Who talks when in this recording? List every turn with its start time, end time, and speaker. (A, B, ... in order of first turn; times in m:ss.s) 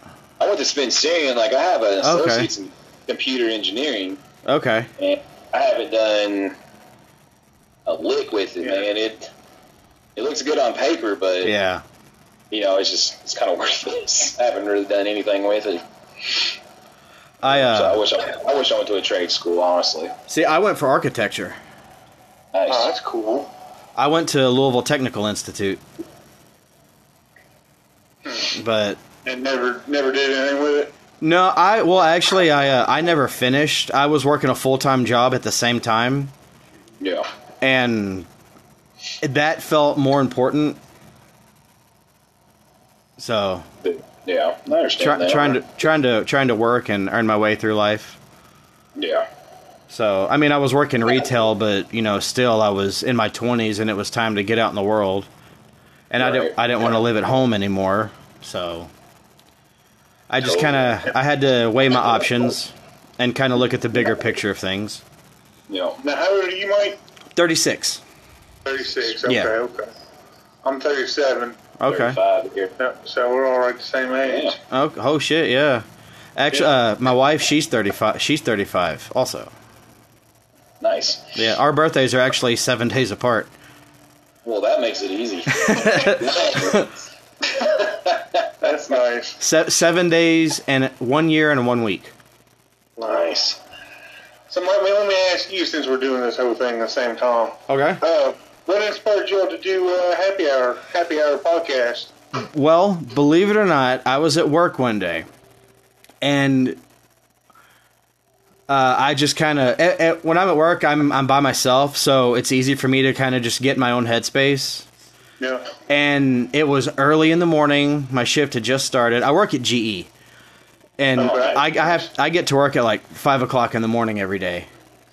0:00.4-0:04.2 A
0:02.0-0:02.5 B
0:04.4-0:04.9 B
0:05.0-0:06.6 A
0:07.9-0:09.3 A
0:10.2-0:11.5 A
0:11.4-0:11.8 B
0:12.5-0:16.5 A
0:17.4-0:18.0 B
0:17.5-0:20.1 A
0:20.3-0:21.6 B
0:22.5-0:22.9 A
0:22.7-0:23.5 C
0:24.0-0:25.8 B
0:28.5-0:29.0 B
0:29.2-0:30.9 C
0:31.2-0:36.3 B
0:37.0-0:37.3 A
0:37.6-0:38.3 B
0:39.2-0:40.8 B
0:43.2-0:43.6 B
0:43.8-0:45.6 A
0:45.0-0:48.2 B
0:49.0-0:49.2 A
0:49.9-0:55.3 B
0:56.1-0:58.9 B
0:56.2-0:57.0 A
1:00.3-1:05.0 B
1:00.4-1:01.0 A
1:05.7-1:06.0 A
1:06.0-1:07.0 C
1:07.4-1:08.0 B
1:08.6-1:09.9 C
1:09.2-1:09.5 B
1:10.6-1:11.6 C
1:11.8-1:12.2 B
1:11.9-1:12.7 A
1:12.8-1:14.6 C
1:14.2-1:14.6 A
1:14.7-1:15.8 B
1:16.4-1:19.5 B
1:20.8-1:21.4 A
1:21.4-1:23.5 B
1:24.4-1:26.9 A
1:25.5-1:26.9 B
1:27.5-1:28.5 A
1:28.6-1:29.4 C
1:29.4-1:32.1 B
1:33.0-1:33.3 C
1:33.0-1:33.6 A
1:34.5-1:42.1 C
1:37.7-1:38.0 B
1:42.4-1:45.3 B
1:46.2-1:46.8 B
1:48.7-1:54.9 B
1:55.4-1:55.7 C
1:55.9-2:00.1 B
2:01.0-2:04.7 B
2:01.2-2:01.6 A
2:01.2-2:02.0 C